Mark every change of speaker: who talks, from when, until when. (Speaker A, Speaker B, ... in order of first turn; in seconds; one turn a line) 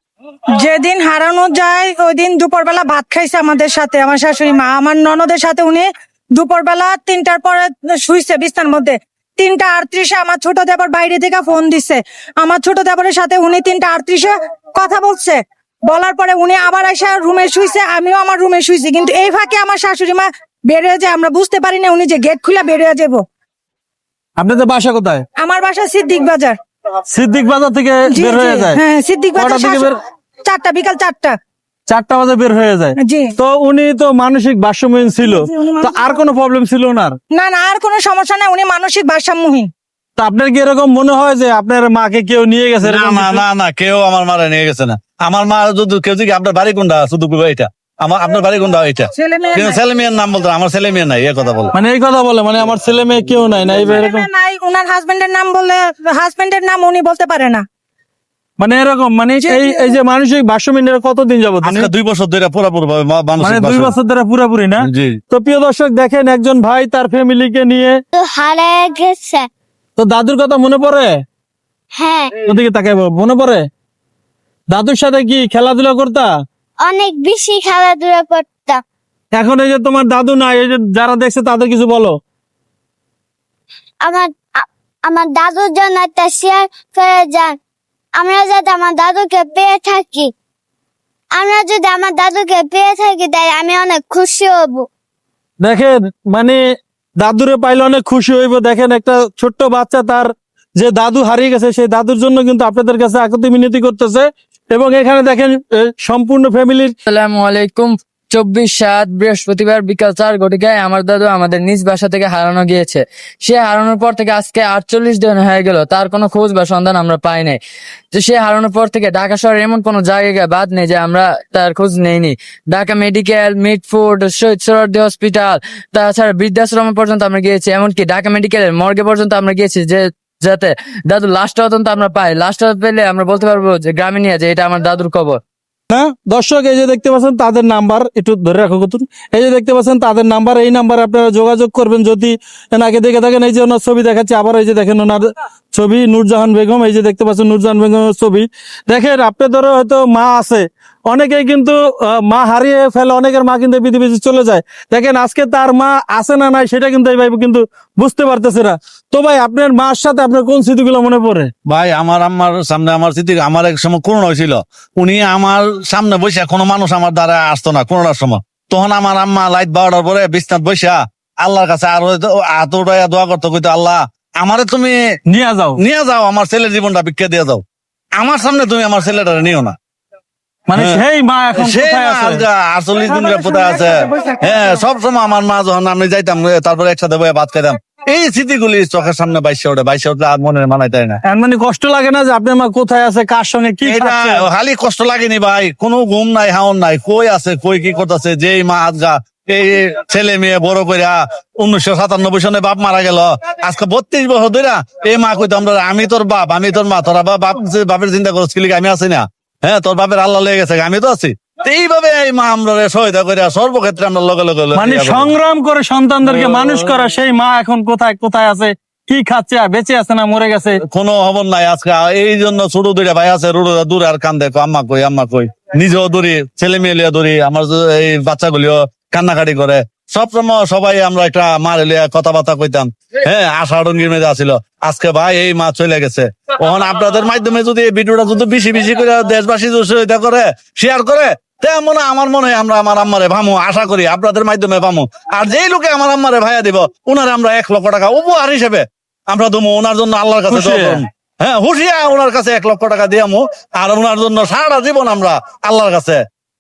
Speaker A: 0.5-23.2
Speaker B: 24.4-25.2
Speaker A: 25.4-26.6
Speaker B: 27.1-28.8
Speaker A: 28.1-31.4
Speaker B: 29.4-30.0
Speaker B: 31.9-37.2
Speaker A: 33.0-33.3
Speaker A: 35.2-36.2
Speaker A: 37.3-39.7
Speaker B: 40.2-43.4
Speaker C: 42.8-51.7
Speaker A: 49.2-49.8
Speaker B: 51.7-54.3
Speaker A: 53.9-57.6
Speaker B: 58.6-61.9
Speaker A: 59.5-59.7
Speaker C: 61.6-63.9
Speaker B: 63.4-68.0
Speaker C: 64.8-65.2
Speaker D: 68.2-69.5
Speaker B: 70.0-71.2
Speaker D: 72.0-72.3
Speaker B: 72.4-73.7
Speaker B: 74.7-76.3
Speaker D: 76.9-78.8
Speaker B: 79.3-82.2
Speaker D: 84.0-84.3
Speaker D: 85.1-87.6
Speaker D: 88.2-90.3
Speaker D: 91.4-94.9
Speaker B: 95.6-96.6
Speaker B: 97.2-106.9
Speaker E: 107.1-117.6
Speaker E: 118.1-135.4
Speaker B: 135.9-161.5
Speaker C: 161.7-175.0
Speaker B: 175.3-175.8
Speaker C: 175.8-177.6
Speaker C: 178.2-179.7
Speaker B: 180.7-182.4
Speaker C: 180.8-181.0
Speaker C: 181.6-191.2
Speaker B: 191.2-194.4
Speaker C: 193.8-215.3
Speaker B: 214.8-220.8
Speaker C: 216.3-216.6
Speaker C: 220.9-256.2
Speaker B: 250.5-251.0